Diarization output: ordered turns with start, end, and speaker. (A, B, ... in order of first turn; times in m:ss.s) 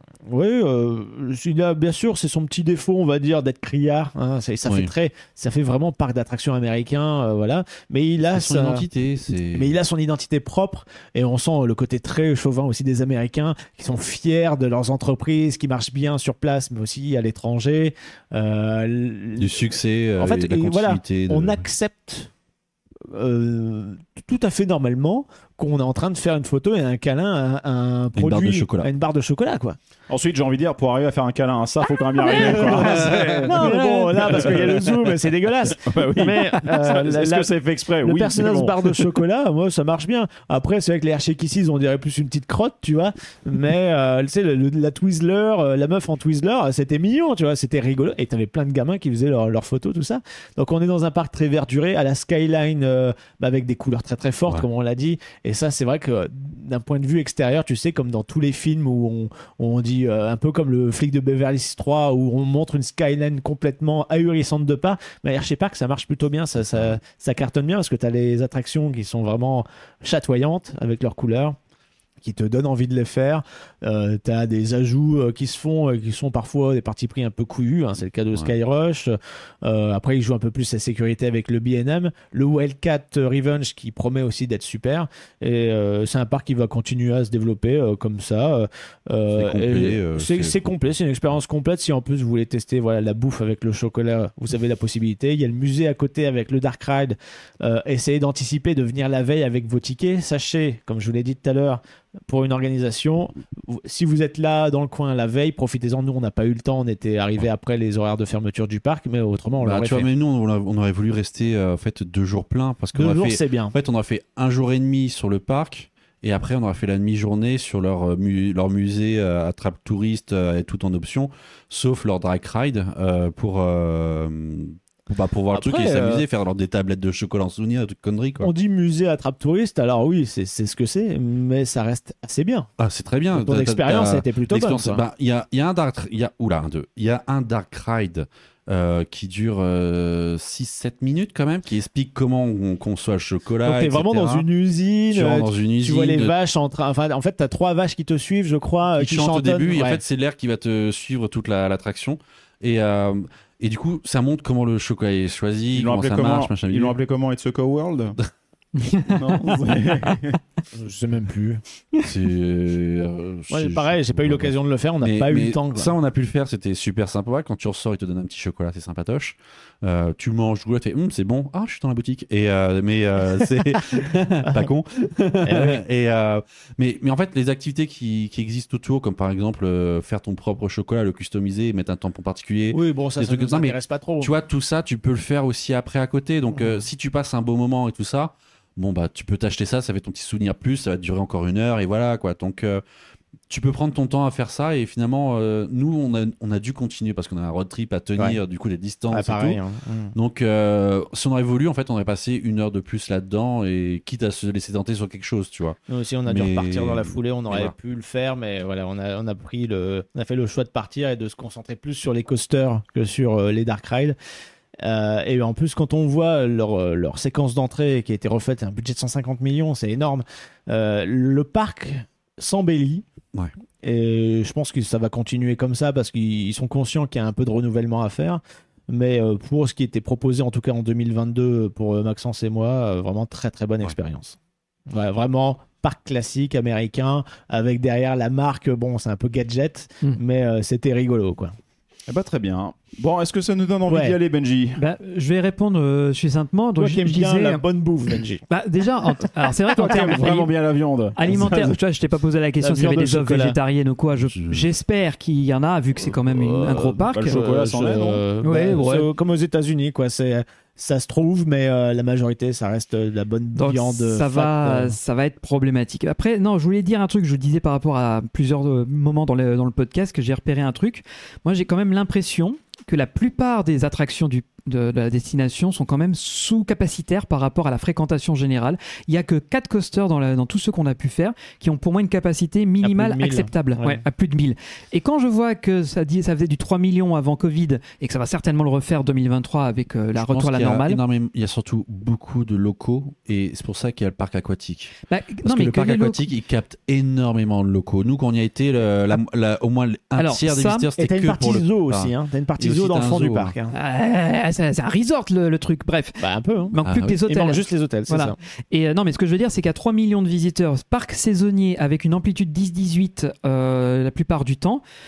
0:00.3-0:08.9 A
0:04.7-0:04.9 B
0:08.3-0:09.8 B
0:09.5-0:19.6 A
0:19.4-0:21.6 B
0:20.2-0:22.3 A
0:23.1-0:29.8 A
0:28.2-0:28.9 B
0:30.1-0:34.9 C
0:32.2-0:37.5 A
0:32.3-0:34.6 B
0:35.8-0:39.0 C
0:38.0-1:11.6 A
1:12.2-1:50.1 A
1:29.4-1:30.6 B
1:49.6-2:08.5 B
1:52.9-1:53.8 A
2:05.5-2:06.2 A
2:08.4-2:12.7 A
2:12.8-2:24.5 B
2:13.3-2:15.0 A
2:23.6-2:30.0 A
2:25.1-2:26.4 B
2:29.0-2:37.0 B
2:35.7-2:38.2 C
2:38.8-2:39.2 D
2:39.2-2:40.4 C
2:40.7-2:41.6 A
2:42.0-3:12.8 B
2:43.5-2:45.9 A
2:55.4-2:55.8 A
3:02.7-3:04.3 A
3:06.5-3:06.8 A
3:13.5-3:19.6 B
3:19.1-3:20.1 A
3:20.2-3:27.7 B
3:25.9-3:34.2 A
3:34.8-3:43.0 A
3:43.8-3:54.4 A
3:54.9-4:01.6 A
4:02.1-4:04.8 C
4:03.9-4:04.2 A
4:04.8-4:07.6 D
4:06.8-4:08.4 A
4:08.5-4:10.5 D
4:09.8-4:11.7 C
4:11.2-4:17.4 D
4:11.3-4:11.7 A
4:12.6-4:13.6 A
4:14.3-4:14.6 B
4:16.0-4:25.0 A
4:17.1-4:18.2 C
4:18.4-4:19.1 D
4:23.6-4:51.0 D
4:42.8-4:44.0 A
4:50.2-5:03.5 B
4:55.1-4:56.3 D
5:00.2-5:00.9 D
5:01.0-5:03.7 A
5:03.7-5:14.8 D
5:06.2-5:08.4 A
5:06.8-5:07.2 B